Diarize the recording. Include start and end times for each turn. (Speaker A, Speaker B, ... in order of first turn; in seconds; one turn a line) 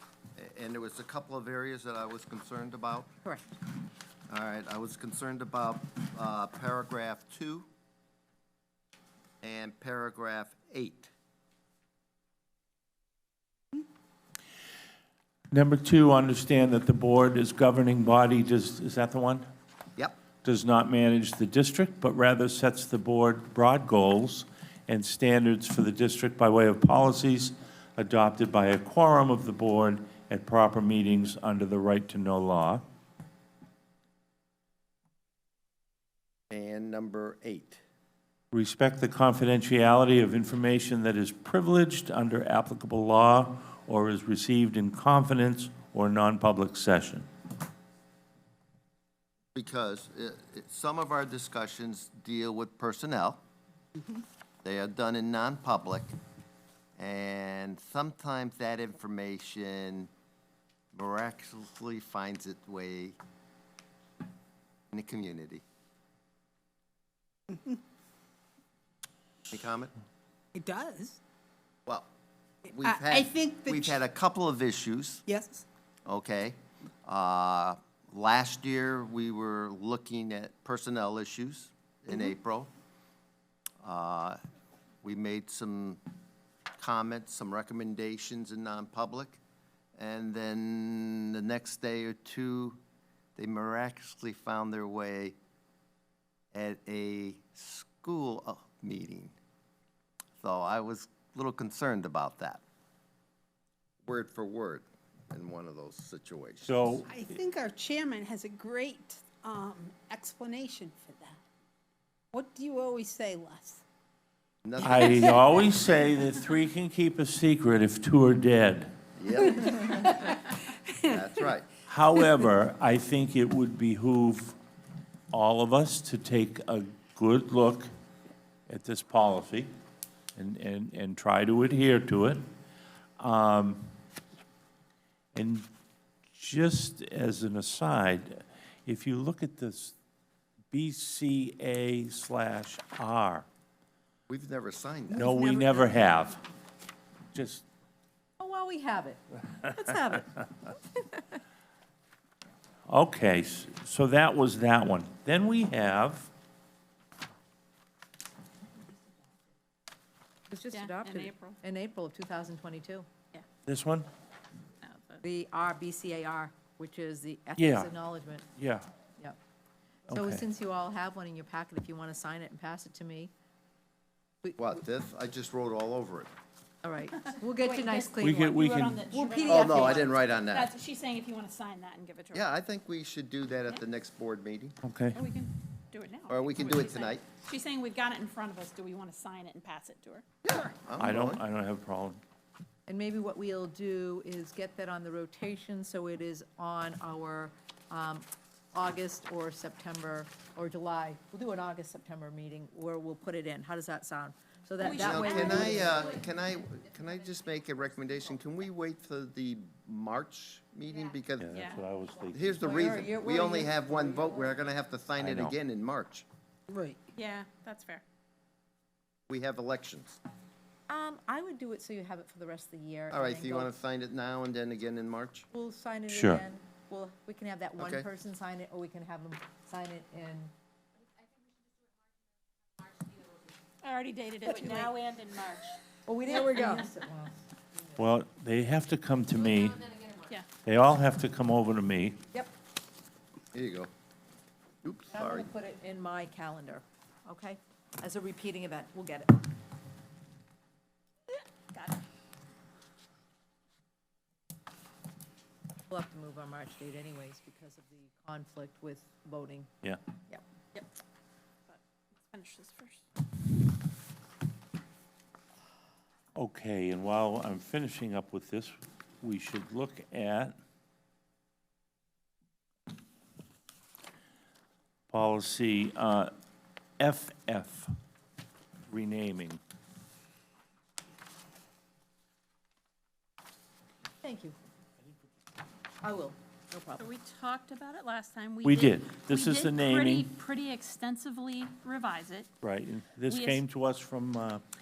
Speaker A: 0.4-3.1
Speaker A: 4.3-7.7
Speaker A: 9.4-11.1
Speaker B: 15.5-19.5
Speaker B: 20.4-32.8
Speaker A: 36.5-37.8
Speaker B: 38.5-47.3
Speaker A: 49.5-53.4
Speaker A: 54.6-56.1
Speaker A: 57.0-60.1
Speaker A: 60.9-63.2
Speaker A: 64.9-65.6
Speaker C: 67.5-67.8
Speaker A: 69.5-69.9
Speaker C: 70.5-71.2
Speaker C: 72.7-74.0
Speaker A: 72.7-75.3
Speaker C: 75.3-75.7
Speaker A: 76.1-82.7
Speaker A: 83.8-84.4
Speaker A: 85.0-86.0
Speaker A: 86.8-89.4
Speaker A: 90.0-92.8
Speaker A: 93.4-95.4
Speaker A: 96.5-99.3
Speaker A: 100.4-102.6
Speaker A: 104.0-106.8
Speaker B: 106.6-107.3
Speaker C: 107.0-111.4
Speaker C: 112.3-113.8
Speaker A: 114.6-115.5
Speaker B: 114.8-119.0
Speaker A: 119.2-120.4
Speaker C: 119.8-120.3
Speaker A: 121.0-121.7
Speaker B: 121.8-124.6
Speaker B: 125.3-127.9
Speaker B: 128.7-129.7
Speaker B: 130.4-132.4
Speaker B: 133.2-133.8
Speaker B: 135.3-135.7
Speaker B: 136.3-140.0
Speaker B: 140.7-143.5
Speaker A: 144.3-145.3
Speaker B: 145.1-146.4
Speaker C: 145.2-146.1
Speaker B: 147.3-147.7
Speaker D: 148.4-151.2
Speaker B: 152.9-156.3
Speaker D: 160.5-163.1
Speaker E: 160.7-161.6
Speaker B: 163.7-164.1
Speaker E: 164.8-165.2
Speaker D: 165.2-168.5
Speaker B: 167.6-167.9
Speaker B: 168.6-168.9
Speaker D: 170.1-173.3
Speaker B: 170.1-170.4
Speaker D: 174.4-174.8
Speaker A: 174.6-176.3
Speaker D: 176.8-180.1
Speaker E: 177.4-182.5
Speaker B: 178.2-179.0
Speaker A: 179.4-180.7
Speaker A: 182.3-184.8
Speaker B: 184.8-185.2
Speaker E: 185.1-190.3
Speaker A: 186.3-187.2
Speaker A: 190.4-191.4
Speaker B: 191.0-192.2
Speaker D: 192.9-206.1
Speaker E: 204.8-205.9
Speaker A: 204.9-211.6
Speaker B: 211.4-213.0
Speaker E: 211.5-211.8
Speaker A: 212.3-216.3
Speaker D: 212.6-214.6
Speaker B: 215.2-215.6
Speaker C: 216.7-217.0
Speaker E: 217.1-218.0
Speaker A: 219.3-220.2
Speaker D: 220.9-223.7
Speaker A: 223.1-225.5
Speaker D: 225.5-230.5
Speaker B: 226.1-226.4
Speaker A: 227.8-228.1
Speaker E: 233.8-235.8
Speaker C: 234.5-234.9
Speaker D: 236.1-238.0
Speaker E: 236.3-236.8
Speaker B: 238.0-242.2
Speaker E: 240.2-240.5
Speaker A: 243.5-243.9
Speaker A: 244.8-245.5
Speaker D: 245.1-249.5
Speaker E: 251.3-252.0
Speaker D: 255.9-259.7
Speaker E: 261.7-263.0
Speaker B: 266.4-270.6
Speaker B: 275.1-276.3
Speaker B: 277.0-277.9
Speaker B: 278.9-279.6
Speaker D: 284.2-284.6
Speaker D: 286.0-287.1
Speaker E: 287.0-292.5
Speaker B: 288.6-290.3
Speaker B: 292.6-294.6
Speaker E: 293.3-293.6